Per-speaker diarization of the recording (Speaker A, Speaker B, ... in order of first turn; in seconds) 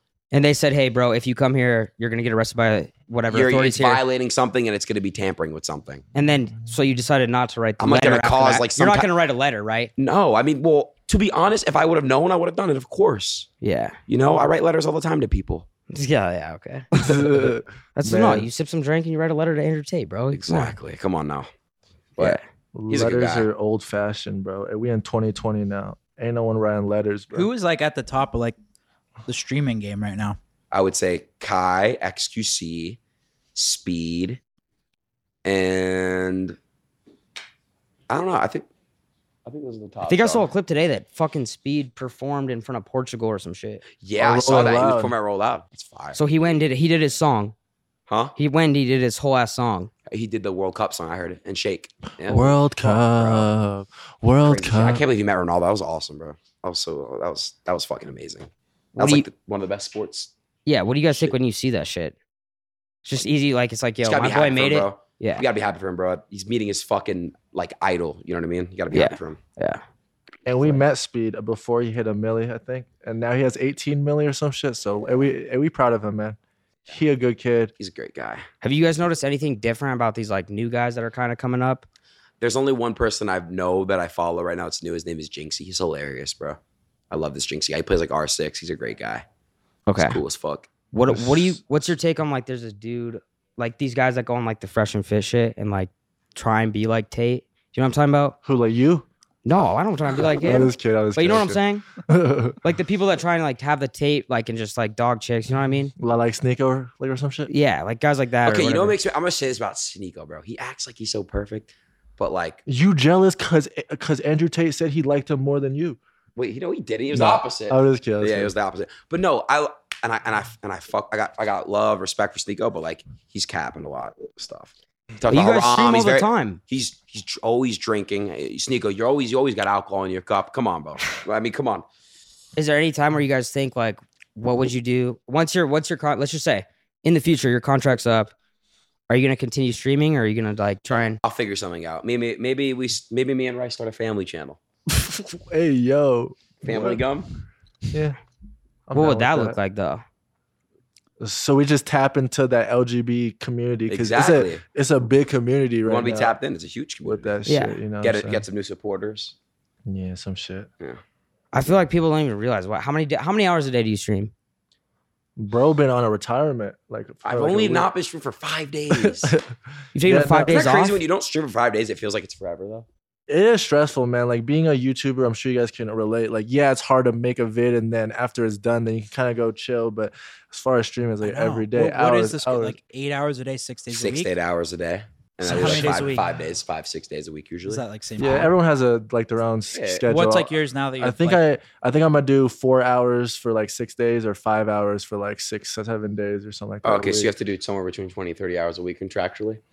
Speaker A: 0.3-4.0, 6.1-9.9, 13.6-14.0, 15.9-20.7, 40.0-43.8, 46.1-47.5, 48.4-49.9, 58.9-59.2, 60.6-62.1, 63.0-65.4, 68.9-69.8, 78.6-81.8, 89.9-90.2, 90.9-98.3, 99.4-101.8, 102.6-105.9, 107.5-109.0, 125.3-126.6, 132.6-138.3, 139.1-141.2, 148.9-150.0, 157.4-157.8, 161.5-164.3, 169.9-171.0
Speaker B: 3.3-6.0, 7.8-9.1, 10.0-13.5, 14.1-15.7, 20.3-21.5, 22.2-23.5, 30.7-33.0, 33.5-34.4, 35.4-36.6, 38.1-38.7, 39.4-40.5, 43.9-46.2, 48.1-48.3, 50.1-53.5, 54.4-60.3, 64.0-69.4, 77.8-78.5, 82.4-86.6, 87.1-89.2, 90.0-90.7, 108.4-112.6, 116.3-131.8, 141.2-144.6, 146.6-147.3, 153.9-154.6, 155.8-157.3, 158.0-159.3, 167.2-169.3, 170.4-172.9, 183.9-187.8, 189.7-190.0, 196.8-199.6
Speaker C: 17.0-18.5, 22.7-27.5, 44.2-45.1, 52.2-55.0, 70.5-77.7, 91.1-91.5, 98.4-99.0, 100.4-102.6, 106.0-107.5, 112.7-116.0, 117.1-118.5, 144.9-147.1, 147.9-148.2, 148.9-149.6, 151.2-156.3, 157.0-158.4, 159.9-160.7, 165.3-167.9, 168.9-170.6, 173.3-182.8, 185.5-186.0, 188.2-197.3
Speaker D: 27.3-28.6, 29.2-30.4, 181.2-184.3, 185.4-186.3, 187.7-188.5, 190.1-191.4